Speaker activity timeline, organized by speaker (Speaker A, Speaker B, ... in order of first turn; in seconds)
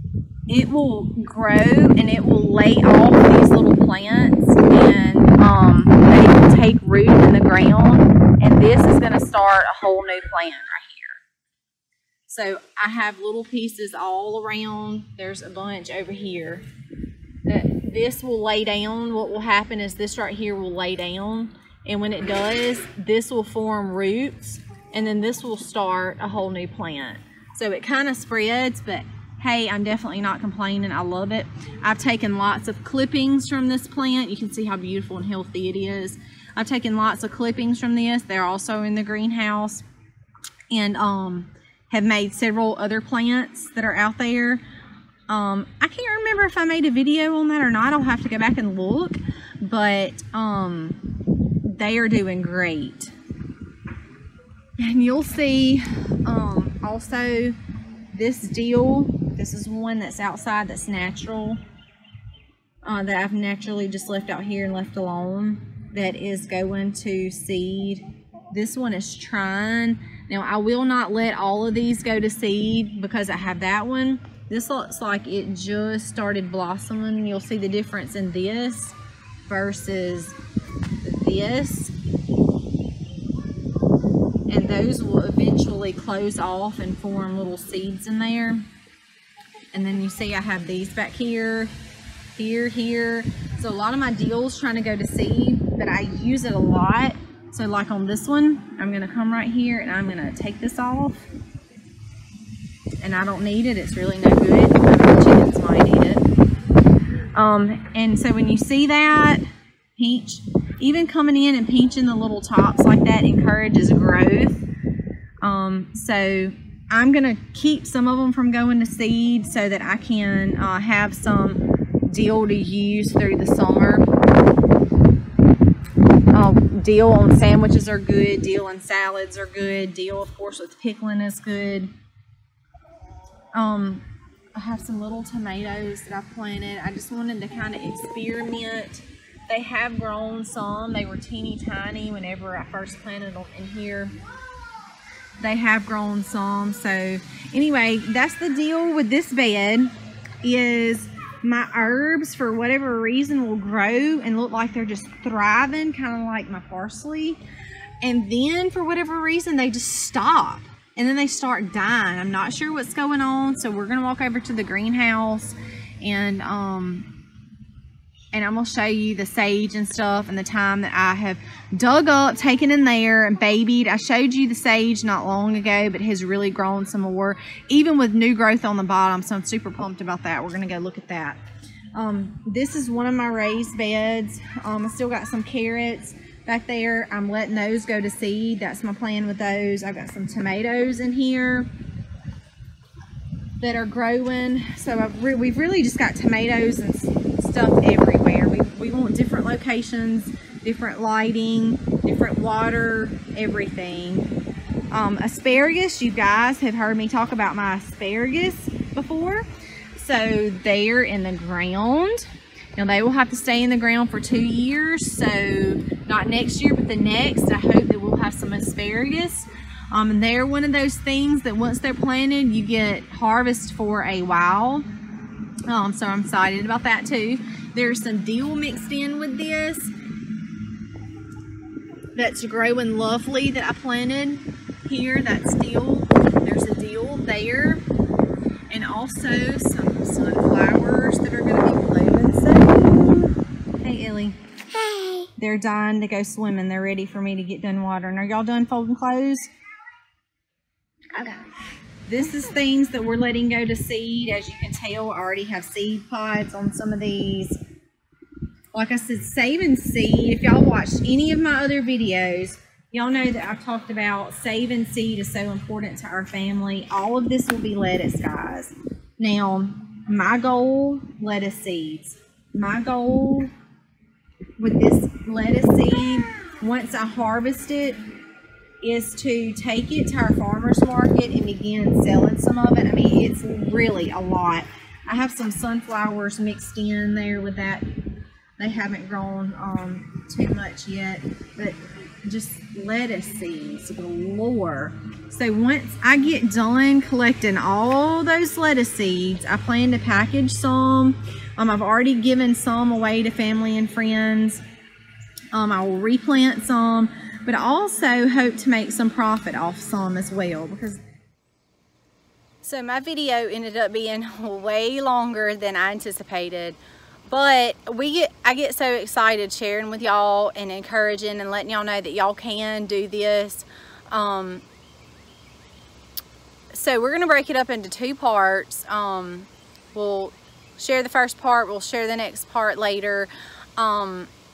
Speaker A: 0.5-11.2, 12.3-16.6, 17.4-39.9, 40.7-44.6, 45.3-53.1, 54.8-57.6, 58.1-61.6, 62.8-80.3, 81.0-81.9, 84.5-88.6, 89.7-91.7, 92.3-101.2, 103.0-106.2, 107.3-109.4, 110.0-114.6, 115.4-124.1, 126.3-131.9, 133.5-134.0, 134.5-144.1, 145.4-157.4, 158.0-167.1, 168.3-181.4, 181.9-191.7, 193.6-204.3, 204.9-224.8, 225.7-229.9, 232.1-237.8, 238.7-249.5, 251.2-251.4, 252.1-257.6, 258.7-273.5, 274.6-278.0, 278.8-287.9, 288.6-304.6, 305.5-311.0, 312.6-324.6, 326.7-334.3